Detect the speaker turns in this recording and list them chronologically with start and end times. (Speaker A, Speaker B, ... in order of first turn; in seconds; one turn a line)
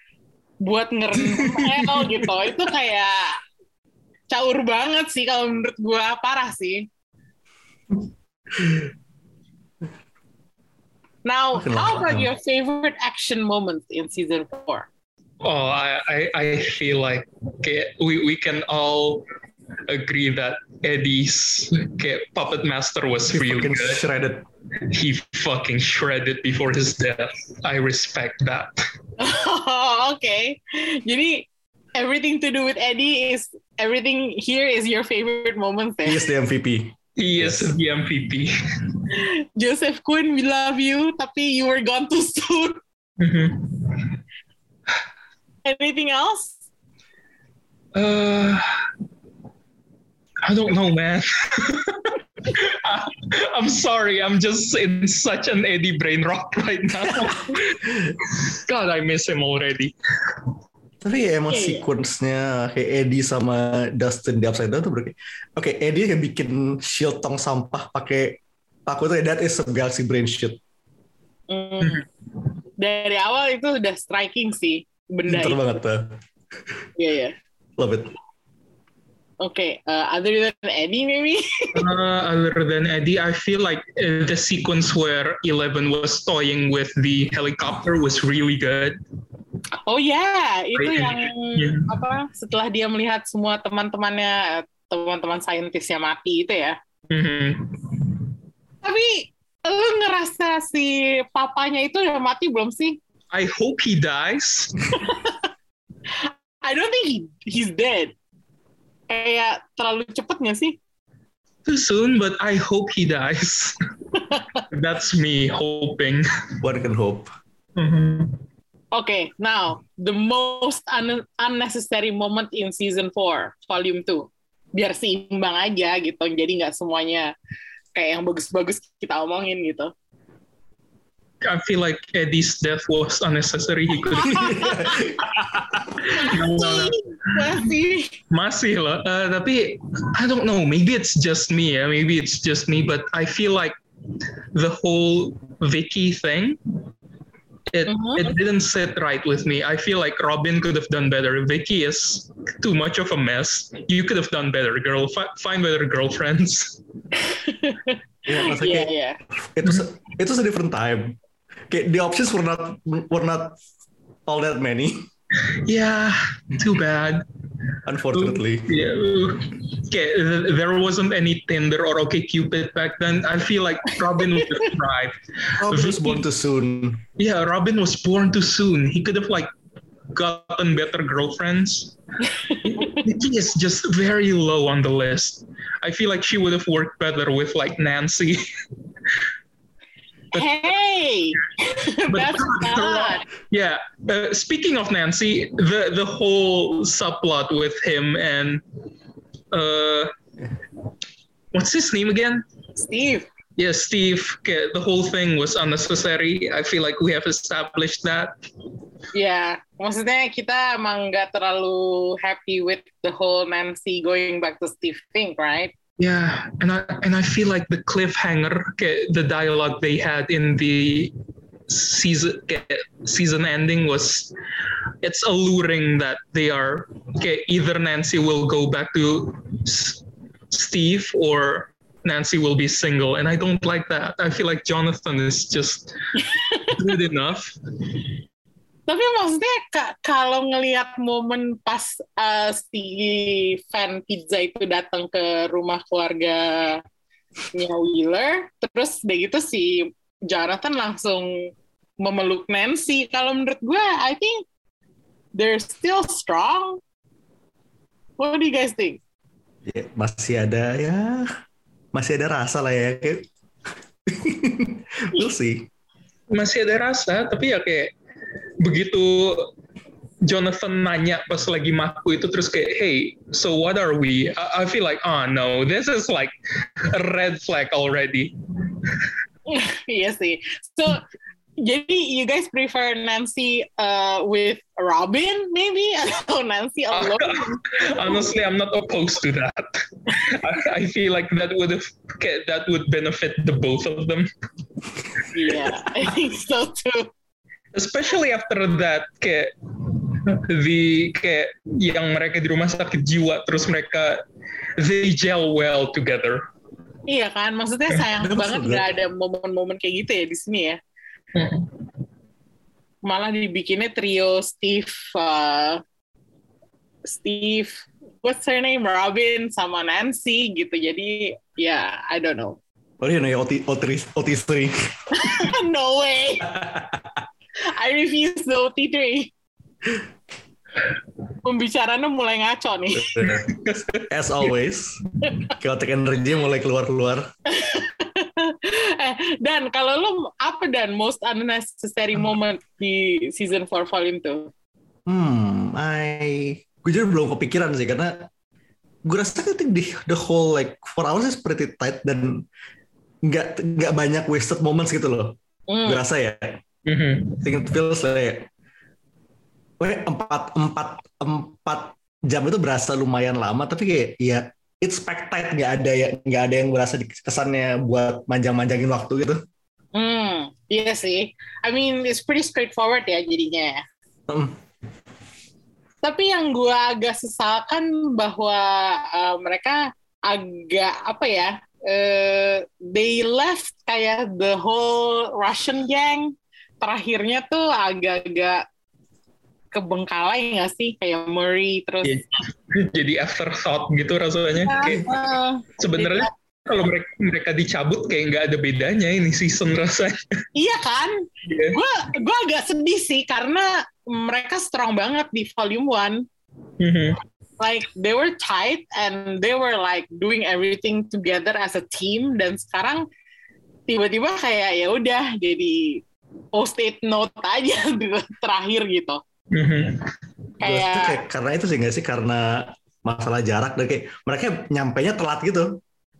Speaker A: 0.6-3.4
Speaker B: 1.4-2.2
Speaker A: 4.3-6.9
Speaker A: 11.2-14.9
Speaker B: 11.5-12.3
Speaker C: 15.4-19.2
Speaker C: 19.9-24.0
Speaker B: 23.3-24.4
Speaker C: 24.8-28.8
Speaker A: 29.2-36.2
Speaker B: 36.0-37.7
Speaker C: 37.2-38.5
Speaker A: 39.1-42.8
Speaker C: 43.2-44.1
Speaker A: 45.6-46.6
Speaker C: 47.9-48.6
Speaker C: 50.4-60.4
Speaker B: 61.0-70.6
Speaker A: 61.5-61.8
Speaker A: 71.5-72.0
Speaker A: 72.8-75.7
Speaker B: 75.2-76.1
Speaker A: 77.0-77.3
Speaker B: 77.8-78.1
Speaker A: 79.4-81.7
Speaker C: 81.7-89.0
Speaker A: 89.9-96.8
Speaker C: 90.8-91.9
Speaker C: 97.1-98.2
Speaker A: 98.8-103.0
Speaker C: 103.3-104.8
Speaker A: 105.0-105.3
Speaker A: 106.1-108.1
Speaker A: 109.1-110.8
Speaker C: 111.6-113.8
Speaker A: 114.3-114.6
Speaker C: 114.7-116.2
Speaker B: 116.6-117.3
Speaker C: 117.8-118.4
Speaker A: 118.9-127.3
Speaker A: 127.9-129.9
Speaker C: 131.4-137.6
Speaker A: 134.2-135.0
Speaker B: 134.2-135.3
Speaker A: 136.0-138.1
Speaker C: 138.3-143.8
Speaker C: 144.5-146.6
Speaker C: 147.7-156.8
Speaker A: 147.9-148.3
Speaker A: 157.1-159.2
Speaker B: 158.2-161.2
Speaker B: 161.7-163.6
Speaker B: 164.3-165.0
Speaker C: 165.6-167.2
Speaker B: 167.8-168.7
Speaker C: 168.1-176.2
Speaker B: 175.6-177.0
Speaker C: 177.2-179.5
Speaker C: 180.1-181.9
Speaker A: 182.2-183.0
Speaker C: 182.6-188.4
Speaker A: 190.3-193.2
Speaker C: 192.1-198.6
Speaker C: 199.5-200.1
Speaker C: 201.5-202.4
Speaker A: 202.8-203.3
Speaker C: 203.6-208.3
Speaker A: 209.1-215.7
Speaker C: 216.0-221.1
Speaker C: 221.7-224.3
Speaker C: 225.0-235.9
Speaker A: 236.2-236.8
Speaker C: 236.7-237.5
Speaker A: 238.9-246.8
Speaker A: 247.5-251.5
Speaker A: 252.0-254.4
Speaker A: 255.3-256.8
Speaker A: 258.2-259.0
Speaker B: 259.6-261.3
Speaker B: 261.9-263.2
Speaker B: 264.1-265.7
Speaker C: 266.3-267.9
Speaker C: 268.6-269.5
Speaker C: 270.2-276.3
Speaker C: 276.9-279.1
Speaker A: 279.5-281.0
Speaker A: 281.6-288.2
Speaker C: 286.9-294.3
Speaker A: 295.3-297.1
Speaker C: 297.7-304.2
Speaker C: 304.8-306.4
Speaker A: 307.1-310.8
Speaker B: 308.2-308.9
Speaker C: 311.3-311.8
Speaker A: 313.0-315.8
Speaker A: 317.0-322.6
Speaker B: 323.0-324.7
Speaker A: 325.1-326.5
Speaker B: 326.5-327.1
Speaker A: 327.7-329.3
Speaker A: 331.4-333.2
Speaker B: 333.0-333.5
Speaker C: 333.2-334.5
Speaker B: 334.1-335.0
Speaker B: 335.6-337.2
Speaker A: 337.5-344.5
Speaker B: 345.1-348.3
Speaker B: 349.1-352.4
Speaker B: 353.2-355.3
Speaker A: 355.7-356.0
Speaker B: 355.8-356.6
Speaker C: 356.9-357.5
Speaker B: 357.4-358.5
Speaker B: 359.8-369.4
Speaker A: 369.9-373.8
Speaker B: 374.3-374.5
Speaker A: 376.0-388.6
Speaker A: 389.7-392.1
Speaker C: 392.0-395.0
Speaker A: 394.6-396.3
Speaker C: 395.8-400.2
Speaker A: 400.6-406.2
Speaker C: 401.4-401.8
Speaker C: 406.8-407.2
Speaker A: 407.6-413.0
Speaker A: 413.9-416.0
Speaker A: 416.5-419.2
Speaker C: 419.5-420.1
Speaker A: 420.6-421.2
Speaker B: 420.6-425.7